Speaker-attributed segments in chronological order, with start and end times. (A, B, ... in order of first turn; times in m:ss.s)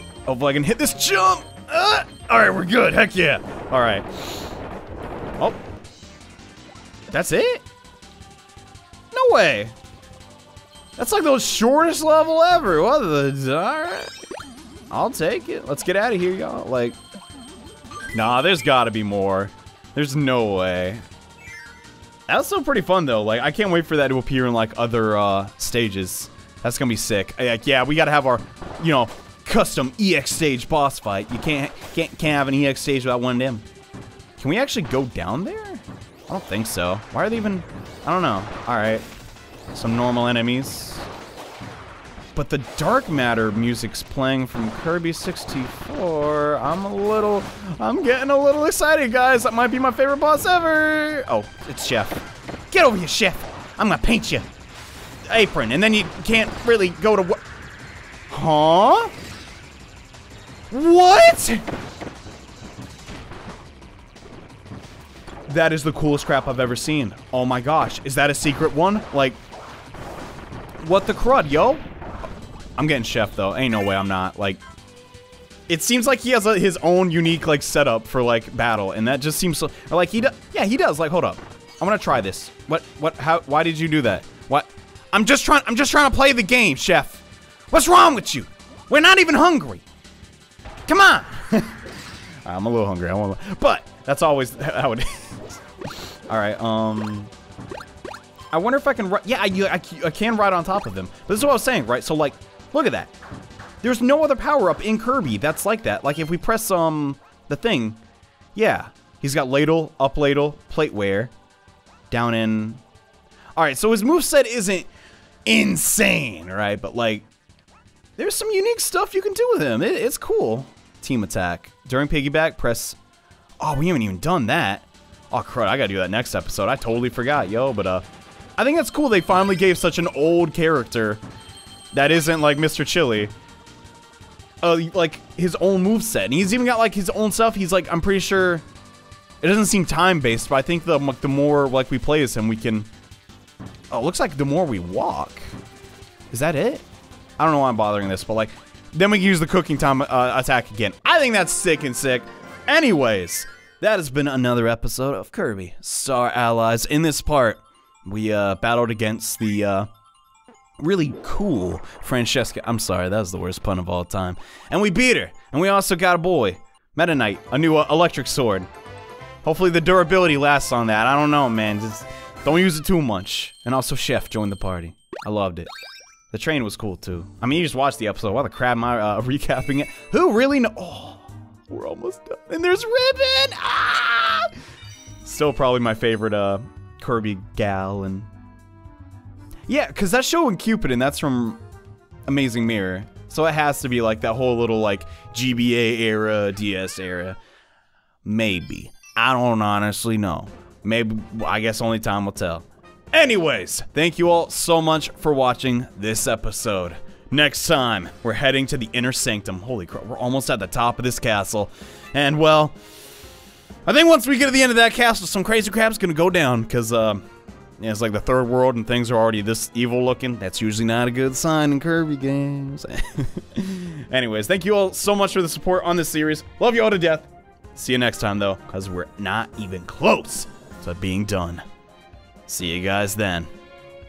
0:00.3-0:04.5 A
0:07.1-0:07.6 A
0:09.1-0:09.7 A
0:11.0-0:14.1 A
0:14.9-0:17.0 A
0:18.1-0:21.0 A
0:22.3-0:33.6 A
0:34.4-0:39.0 A
0:39.7-0:41.1 A
0:42.3-0:54.5 A
0:55.3-0:57.4 A
0:58.3-0:59.1 A
1:00.7-1:01.6 A
1:05.5-1:09.4 A
1:10.8-1:11.8 A
1:12.8-1:14.6 A
1:15.7-1:29.8 A
1:30.9-1:31.9 A
1:32.4-1:35.6 A
1:36.3-1:37.3 A
1:38.5-1:43.1 A
1:43.8-1:48.0 A
1:48.5-1:51.3 A
1:52.1-1:52.8 A
1:53.6-1:54.9 A
1:55.4-1:57.3 A
1:58.2-2:03.0 A
2:03.6-2:08.0 A
2:08.6-2:11.2 A
2:11.9-2:13.3 A
2:14.6-2:18.6 A
2:19.4-2:22.9 A
2:23.9-2:25.5 A
2:26.3-2:26.8 A
2:27.4-2:39.9 A
2:40.8-2:48.7 A
2:49.4-2:55.7 A
2:56.3-3:04.5 A
3:05.2-3:08.3 A
3:09.7-3:11.6 A
3:12.3-3:17.4 A
3:18.2-3:32.8 A
3:33.8-3:37.2 A
3:37.8-3:51.6 A
3:52.5-3:53.5 A